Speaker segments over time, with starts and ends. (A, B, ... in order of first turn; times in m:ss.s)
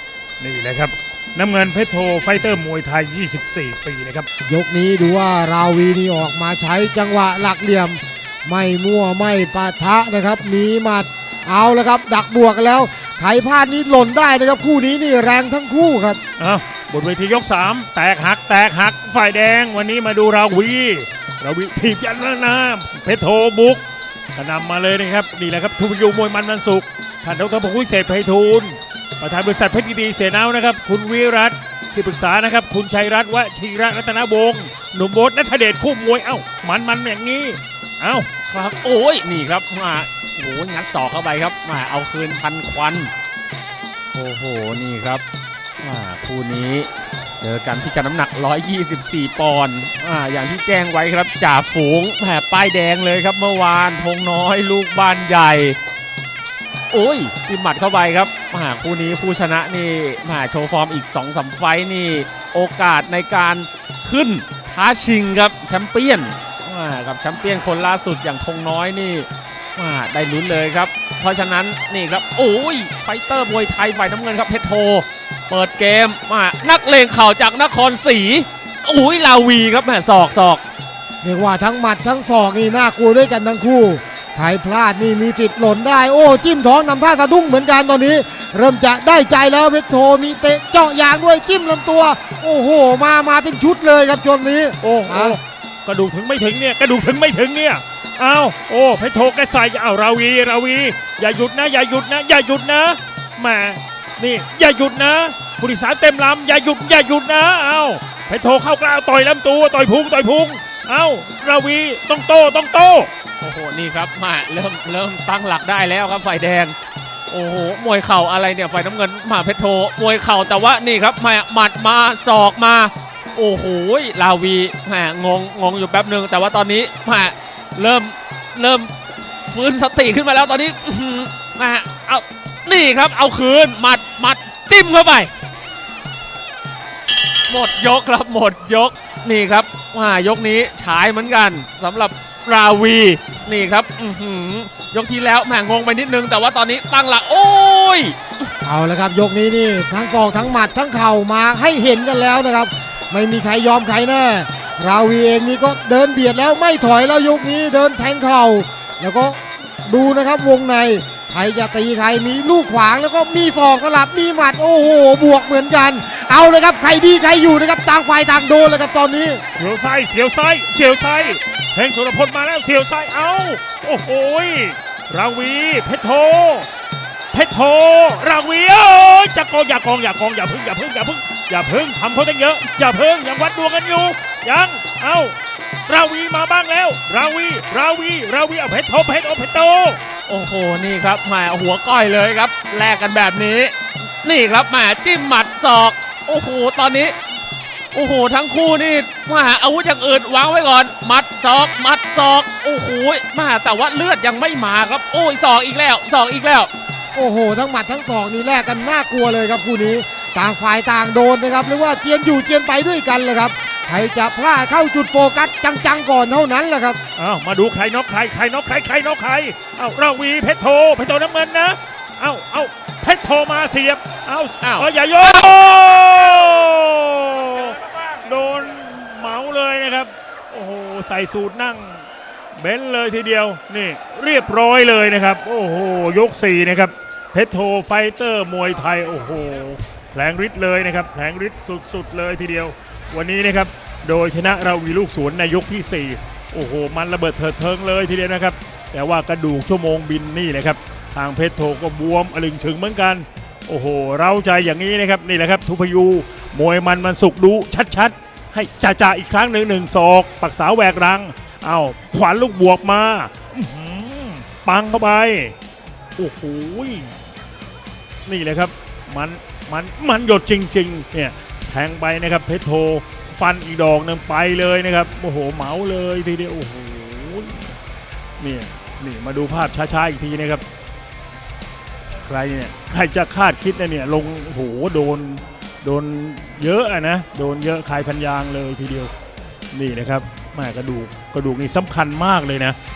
0:00.4-0:04.3 A
0:04.5-0:16.2 B
0:16.4-0:23.8 A
0:24.3-0:38.3 A
0:38.5-0:43.1 C
0:44.1-0:45.2 C
0:45.8-0:46.9 C
0:47.4-0:55.8 C
0:56.9-1:20.6 C
1:21.2-1:35.4 B
1:34.8-1:53.1 A
1:53.4-1:56.7 C
1:57.3-2:08.9 C
2:09.5-2:15.3 C
2:17.5-2:28.2 C
2:28.6-2:49.4 B
2:49.5-2:56.7 A
2:57.3-3:05.3 A
3:05.9-3:10.0 A
3:10.3-3:17.1 C
3:17.9-3:26.7 C
3:27.1-3:37.0 B
3:37.2-3:52.0 A
3:44.6-3:44.9 C
3:52.6-4:25.5 A
4:26.2-4:27.1 A
4:28.2-4:37.7 A
4:38.4-4:40.6 A
4:42.2-4:49.1 A
4:49.7-4:52.8 A